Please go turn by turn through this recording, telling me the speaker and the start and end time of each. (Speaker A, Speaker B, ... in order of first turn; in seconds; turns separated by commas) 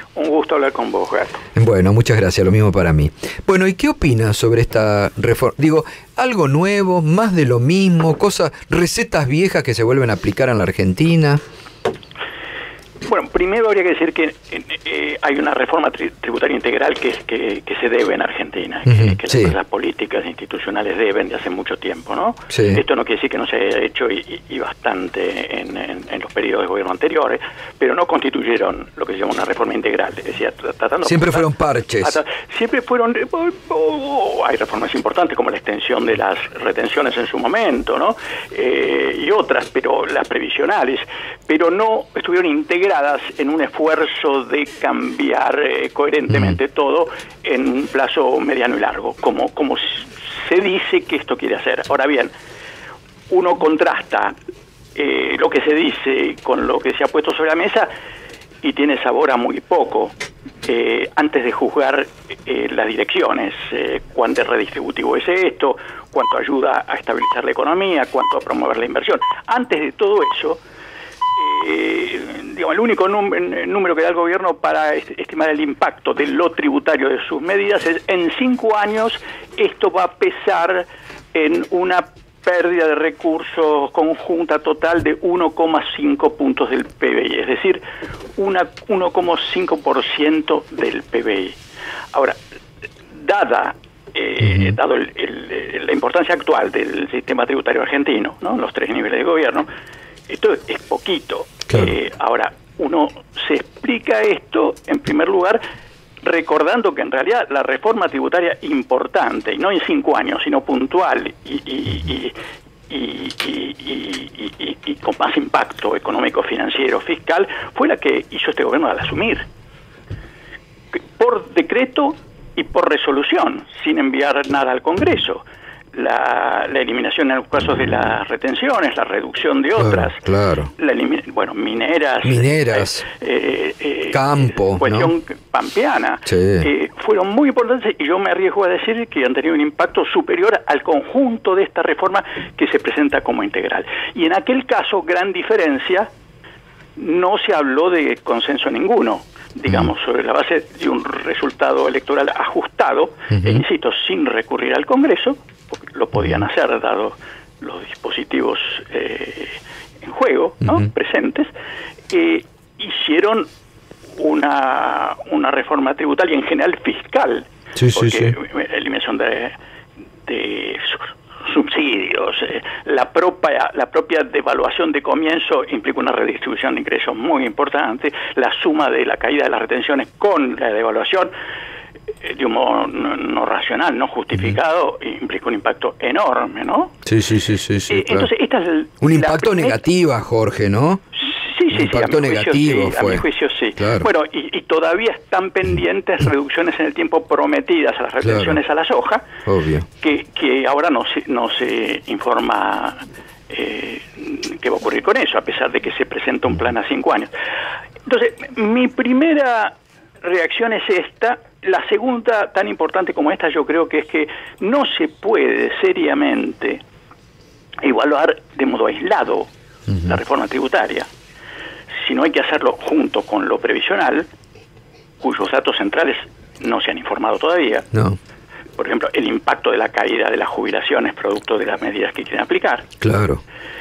Speaker A: 0.1-1.4, Speaker B: 1.5-11.4, Speaker A: 13.1-31.5, Speaker B: 18.9-19.5, Speaker B: 22.5-22.8, Speaker B: 31.0-32.2, Speaker A: 32.0-52.3, Speaker B: 46.3-46.6, Speaker A: 53.3-54.3, Speaker A: 54.9-57.9, Speaker A: 58.6-60.1, Speaker A: 60.6-70.6, Speaker A: 71.4-87.8, Speaker A: 88.4-91.6, Speaker A: 92.1-92.4, Speaker A: 93.1-99.7, Speaker B: 94.4-94.8, Speaker A: 100.3-105.6, Speaker B: 101.7-101.9, Speaker A: 106.2-112.3, Speaker A: 112.9-119.5, Speaker A: 120.9-125.4, Speaker A: 125.9-130.2, Speaker B: 129.8-130.7, Speaker A: 130.8-146.1, Speaker B: 132.2-133.1, Speaker B: 134.1-135.1, Speaker B: 136.2-136.7, Speaker A: 147.0-161.5, Speaker B: 153.3-153.6, Speaker B: 156.2-156.4, Speaker A: 162.1-163.5, Speaker A: 164.2-169.6, Speaker B: 167.8-168.3, Speaker A: 170.2-181.3, Speaker A: 182.2-186.9, Speaker B: 187.1-188.3, Speaker A: 187.9-189.8, Speaker B: 189.0-191.0, Speaker A: 191.2-199.3, Speaker B: 191.7-194.1, Speaker B: 198.2-198.6, Speaker B: 199.4-199.8, Speaker A: 200.0-207.3, Speaker A: 208.1-216.8, Speaker A: 217.8-219.5, Speaker B: 219.9-220.2, Speaker A: 220.0-221.1, Speaker A: 222.0-224.3, Speaker A: 225.2-227.9, Speaker A: 228.8-232.9, Speaker B: 233.0-233.4